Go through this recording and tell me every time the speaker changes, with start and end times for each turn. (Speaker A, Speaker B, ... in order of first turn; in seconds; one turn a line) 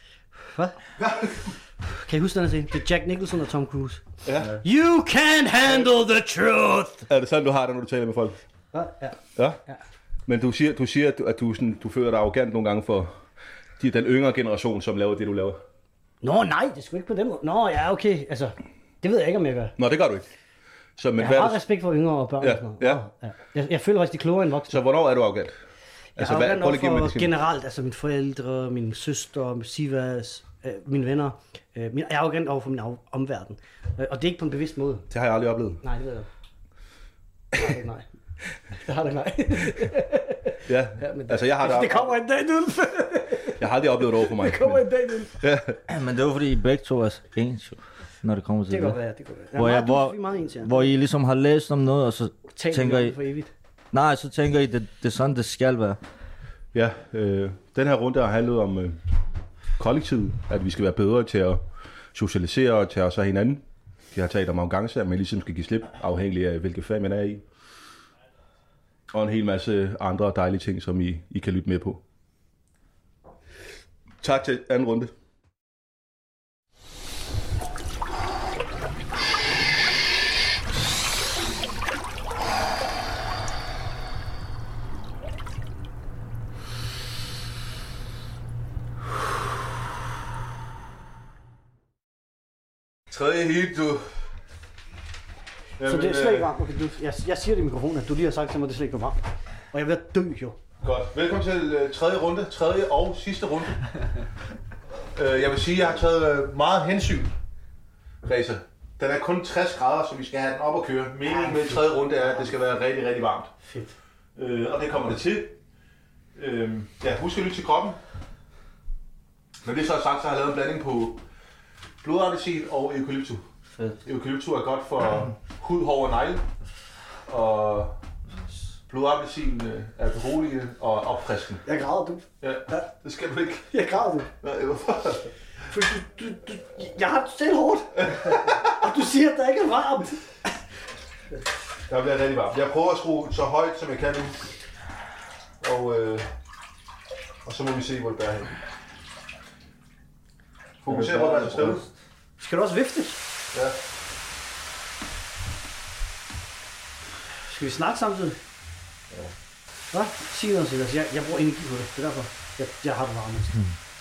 Speaker A: 0.5-0.8
Speaker B: 1.0-1.5
Speaker A: 1.9-4.0
Speaker B: 4.2-4.6
Speaker A: 4.6-7.1
Speaker B: 7.1-8.4
Speaker A: 8.7-9.8
Speaker B: 10.3-13.1
Speaker B: 13.8-15.6
Speaker A: 16.2-19.8
Speaker B: 19.8-20.3
Speaker B: 21.0-21.6
Speaker A: 21.2-24.8
Speaker B: 22.4-23.0
Speaker B: 24.7-25.5
Speaker A: 26.2-35.1
Speaker B: 26.2-27.3
Speaker B: 35.1-35.8
Speaker A: 35.8-36.3
Speaker A: 37.5-38.1
Speaker A: 38.7-45.4
Speaker B: 40.7-42.1
Speaker B: 43.6-44.8
Speaker B: 45.4-45.8
Speaker C: 45.9-49.0
Speaker A: 48.7-50.9
Speaker C: 49.6-53.2
Speaker A: 52.6-53.5
Speaker C: 53.9-56.0
Speaker B: 56.7-59.0
Speaker B: 59.8-61.6
Speaker B: 62.1-67.4
Speaker B: 69.1-72.0
Speaker B: 74.2-75.1
Speaker B: 93.1-94.1
Speaker B: 95.8-96.5
Speaker A: 95.8-99.2
Speaker A: 99.7-100.6
Speaker B: 100.8-103.8
Speaker B: 105.1-107.3
Speaker B: 108.2-113.5
Speaker A: 111.2-112.5
Speaker A: 113.6-114.0
Speaker B: 114.4-115.5
Speaker B: 116.4-118.0
Speaker B: 119.6-121.2
Speaker B: 122.0-123.4
Speaker B: 124.0-126.4
Speaker B: 127.3-127.9
Speaker B: 128.9-131.6
Speaker A: 131.7-132.9
Speaker B: 132.4-133.7
Speaker A: 133.7-134.3
Speaker B: 134.4-135.3
Speaker A: 135.7-140.3
Speaker B: 138.1-138.6
Speaker B: 141.9-144.4
Speaker B: 145.6-146.3
Speaker B: 147.4-148.6
Speaker B: 150.8-151.8
Speaker C: 150.9-151.9
Speaker A: 152.4-153.2
Speaker A: 157.5-158.4
Speaker A: 159.9-163.6